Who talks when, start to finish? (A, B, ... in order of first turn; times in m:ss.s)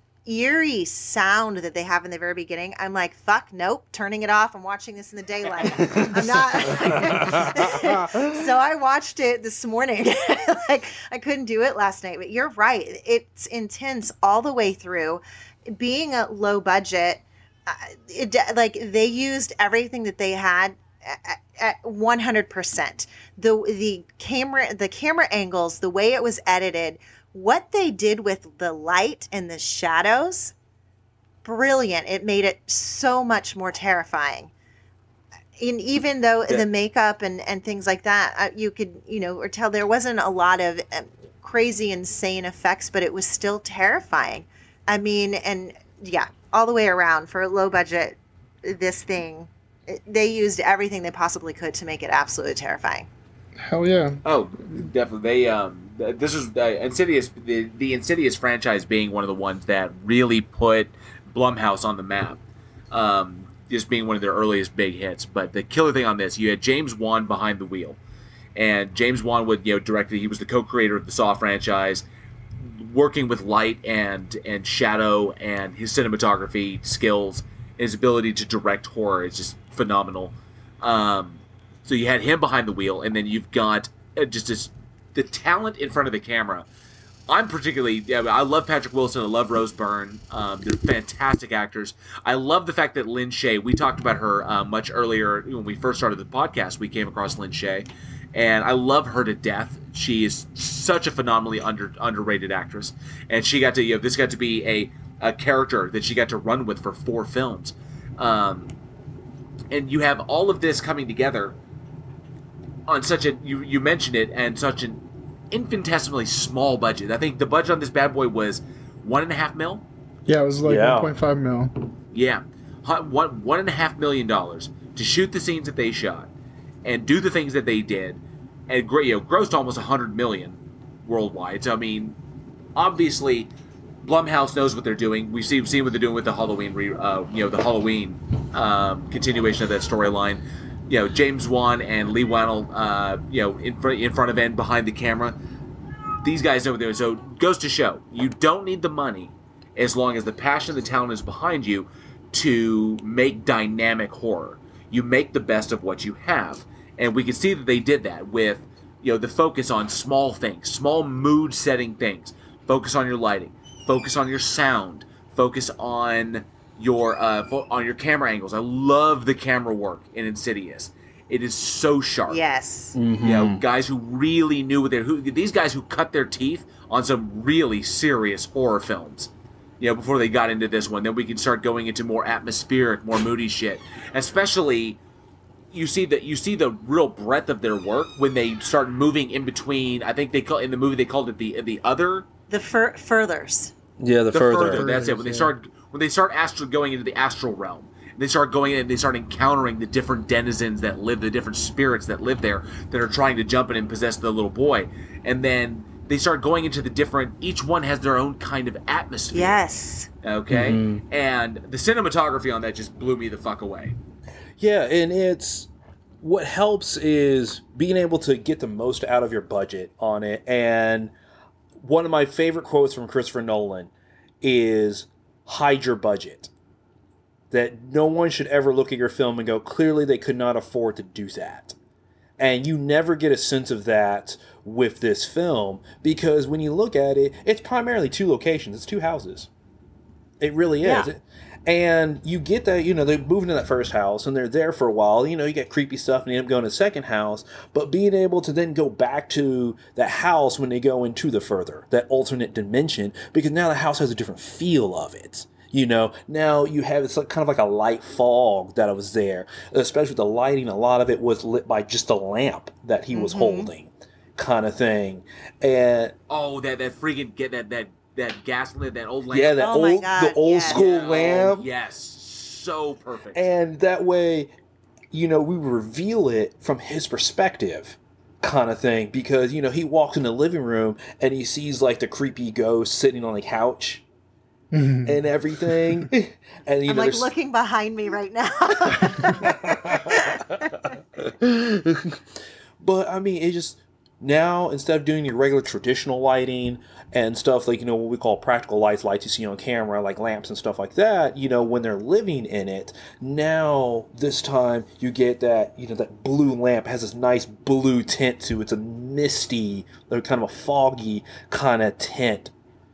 0:00.3-0:30.5 A
0:05.9-0:08.3 B
0:31.4-0:34.5 A
0:35.6-0:53.1 A
0:53.6-0:54.2 C
0:54.2-1:02.4 D
1:02.9-1:08.0 D
1:08.6-1:12.1 D
1:12.6-1:26.7 D
1:27.3-1:48.7 D
1:49.7-1:51.6 D
1:52.9-1:59.8 D
2:00.3-2:01.9 C
2:00.6-2:01.2 B
2:02.1-2:06.3 D
2:06.8-2:12.2 D
2:12.8-2:13.5 D
2:14.0-2:25.4 D
2:26.2-2:52.4 D
2:52.3-2:53.0 A
2:53.0-2:53.6 B
2:53.2-3:05.0 D
3:05.7-3:12.3 D
3:12.5-3:13.7 A
3:14.0-3:14.9 B
3:14.3-3:29.6 D
3:14.6-3:15.5 C
3:29.3-3:30.1 A
3:30.2-3:34.0 D
3:30.5-3:31.0 B
3:34.6-3:41.1 B
3:41.8-3:46.5 B
3:47.5-3:51.8 B
3:52.4-3:59.5 B
4:00.4-4:26.1 B
4:00.8-4:01.1 A
4:23.1-4:23.7 A
4:26.3-4:29.5 D
4:29.3-4:31.7 B
4:29.6-4:31.4 A
4:30.7-4:33.5 D
4:33.3-4:34.5 B
4:35.1-4:44.0 B
4:44.7-4:46.1 C
4:45.0-4:47.3 B
4:46.9-4:51.0 A
4:49.3-4:50.4 B
4:51.2-5:12.5 B